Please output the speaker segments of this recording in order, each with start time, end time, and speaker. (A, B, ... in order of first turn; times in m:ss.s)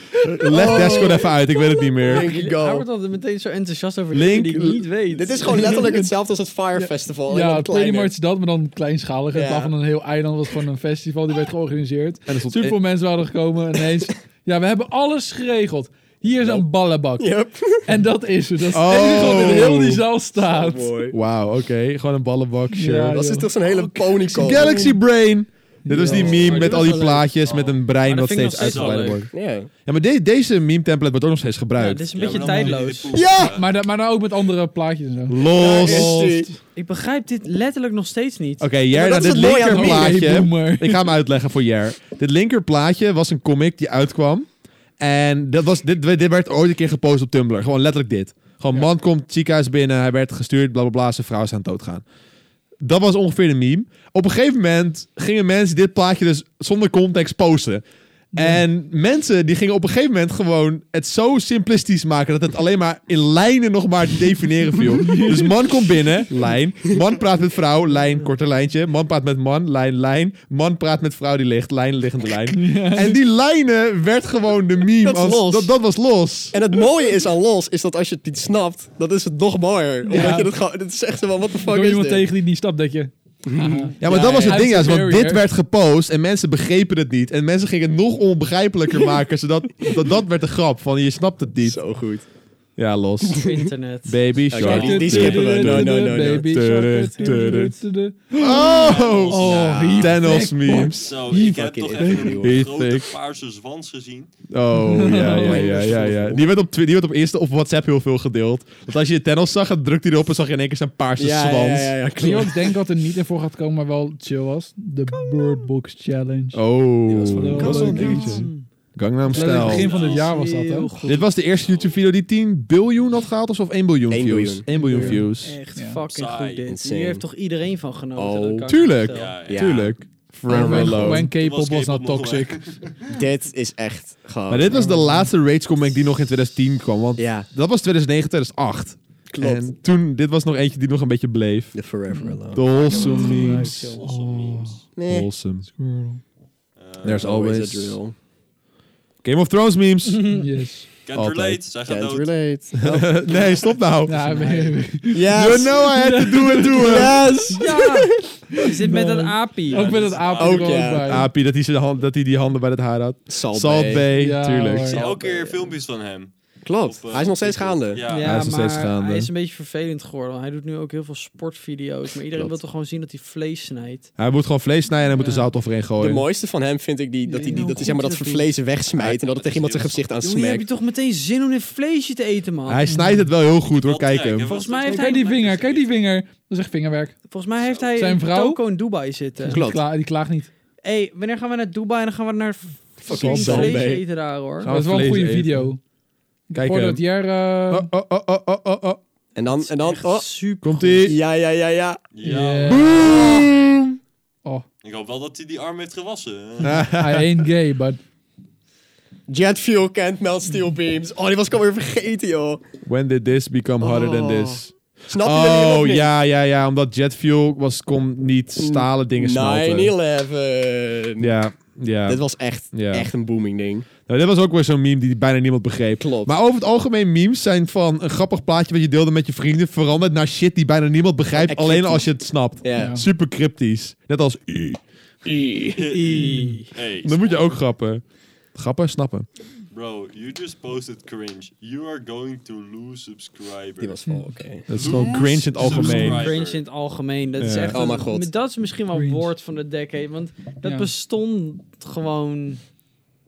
0:00.2-0:01.3 A
0:00.4-0:02.3 B
0:02.0-0:02.8 A
0:02.0-0:05.8 C
0:04.1-0:04.8 B
0:05.1-0:08.1 A
0:05.6-0:06.1 D
0:06.8-0:21.0 D
0:09.3-0:09.7 A
0:12.3-0:12.8 B
0:16.4-0:16.6 A
0:17.2-0:18.0 A
0:18.7-0:20.0 B
0:19.3-0:19.8 A
0:20.4-0:21.2 A
0:21.1-0:23.1 B
0:22.7-0:25.0 D
0:23.0-0:24.8 A
0:24.4-0:29.3 B
0:25.8-0:26.5 D
0:25.9-0:27.2 A
0:26.2-0:27.2 C
0:27.4-0:27.8 E
0:28.0-0:29.2 C
0:28.4-0:29.2 E
0:29.3-0:29.7 A
0:29.8-0:32.3 B
0:31.8-0:33.1 C
0:32.2-0:33.7 E
0:32.4-0:32.8 D
0:33.1-0:33.5 A
0:33.4-0:36.5 D
0:35.3-0:36.2 B
0:35.5-0:36.5 A
0:36.7-0:38.7 C
0:38.6-0:44.5 B
0:38.9-0:40.3 A
0:39.6-0:41.0 D
0:45.0-0:52.0 B
0:52.8-0:57.8 B
0:58.3-0:58.6 D
0:58.3-1:16.6 B
1:05.0-1:05.6 D
1:12.5-1:13.2 D
1:15.0-1:15.7 A
1:16.5-1:22.3 A
1:20.0-1:20.5 D
1:21.6-1:25.4 D
1:23.4-1:24.7 A
1:24.0-1:31.9 B
1:31.6-1:32.2 A
1:32.8-1:33.5 B
1:33.4-1:34.2 C
1:34.0-1:37.8 B
1:34.5-1:36.5 A
1:34.6-1:42.3 D
1:38.3-1:41.1 B
1:38.6-1:44.3 E
1:39.5-1:39.9 A
1:41.3-1:42.6 A
1:42.4-1:43.1 B
1:44.5-1:52.1 B
1:44.7-1:45.8 D
1:45.2-1:46.4 A
1:51.2-1:52.8 A
1:52.1-1:56.6 D
1:56.5-1:59.9 B
1:57.1-1:58.2 A
1:57.3-1:58.5 D
1:57.6-1:58.6 C
1:59.3-2:01.0 D
1:59.6-2:00.3 E
1:59.8-2:01.2 C
2:01.0-2:05.6 B
2:01.4-2:02.0 E
2:04.1-2:05.2 A
2:04.8-2:05.2 D
2:04.9-2:09.4 C
2:06.1-2:06.6 E
2:06.7-2:07.2 A
2:08.2-2:08.7 A
2:08.7-2:11.3 B
2:09.1-2:09.8 E
2:09.5-2:11.3 A
2:10.5-2:12.6 D
2:11.2-2:13.1 E
2:13.1-2:14.9 A
2:14.5-2:21.8 B
2:14.7-2:15.3 D
2:17.2-2:17.5 A
2:19.3-2:19.7 A
2:21.7-2:22.7 A
2:22.1-2:24.8 D
2:22.5-2:24.0 B
2:23.7-2:24.0 C
2:24.0-2:24.8 E
2:24.9-2:25.3 A
2:25.1-2:25.7 B
2:25.7-2:26.2 D
2:26.8-2:27.3 E
2:27.0-2:28.0 B
2:27.0-2:28.1 A
2:29.2-2:30.3 B
2:30.1-2:30.5 C
2:30.3-2:30.9 D
2:31.0-2:32.4 E
2:31.1-2:31.6 B
2:31.9-2:33.2 A
2:32.8-2:34.2 B
2:34.0-2:37.1 D
2:34.2-2:34.8 C
2:35.1-2:35.8 A
2:35.3-2:37.2 B
2:36.8-2:38.3 A
2:37.5-2:40.0 C
2:38.5-2:41.3 D
2:39.7-2:41.0 E
2:40.4-2:41.2 A
2:41.0-2:45.0 B
2:43.3-2:44.1 A
2:44.1-2:45.0 D
2:44.9-2:45.8 A
2:44.9-2:48.4 E
2:46.6-2:48.0 A
2:48.0-2:54.1 C
2:48.2-2:49.3 B
2:54.2-2:56.2 B
2:55.1-2:55.5 C
2:56.0-3:00.6 A
2:57.3-2:58.1 D
2:57.3-2:58.4 C
2:59.0-3:00.1 E
3:00.2-3:02.8 C
3:02.7-3:04.6 B
3:02.9-3:03.3 D
3:03.7-3:06.0 E
3:04.5-3:05.4 C
3:04.8-3:07.2 D
3:07.3-3:09.6 C
3:07.6-3:07.9 E
3:08.0-3:08.6 D
3:09.4-3:10.5 D
3:09.5-3:09.8 A
3:10.8-3:14.7 C
3:13.0-3:14.0 A
3:13.1-3:13.8 B
3:14.6-3:15.7 B
3:14.6-3:15.8 D
3:16.5-3:17.9 D
3:16.5-3:17.0 B
3:17.7-3:19.0 B
3:19.3-3:20.3 A
3:19.6-3:21.1 C
3:20.6-3:21.2 B
3:21.0-3:22.0 A
3:22.1-3:23.7 E
3:22.2-3:23.2 D
3:22.6-3:23.7 B
3:23.0-3:23.7 A
3:24.8-3:26.8 E
3:26.6-3:27.2 B
3:26.8-3:28.0 D
3:29.3-3:32.6 A
3:32.8-3:39.9 B
3:33.8-3:36.1 A
3:38.6-3:41.3 A
3:41.2-3:43.1 B
3:42.1-3:43.9 A
3:44.0-3:54.8 B
3:46.0-3:46.3 A
3:51.4-3:52.1 A
3:52.6-3:53.0 A
3:52.7-3:53.0 D
3:55.2-3:55.8 A
3:55.8-3:57.4 E
3:55.9-3:56.7 C
3:57.0-3:58.0 B
3:58.5-3:59.2 B
3:59.7-4:04.0 E
4:03.8-4:04.7 A
4:04.1-4:06.1 D
4:04.7-4:06.3 B
4:04.7-4:06.6 E
4:05.9-4:12.6 C
4:07.4-4:07.8 B
4:07.7-4:08.3 A
4:08.9-4:09.3 D
4:10.6-4:10.9 D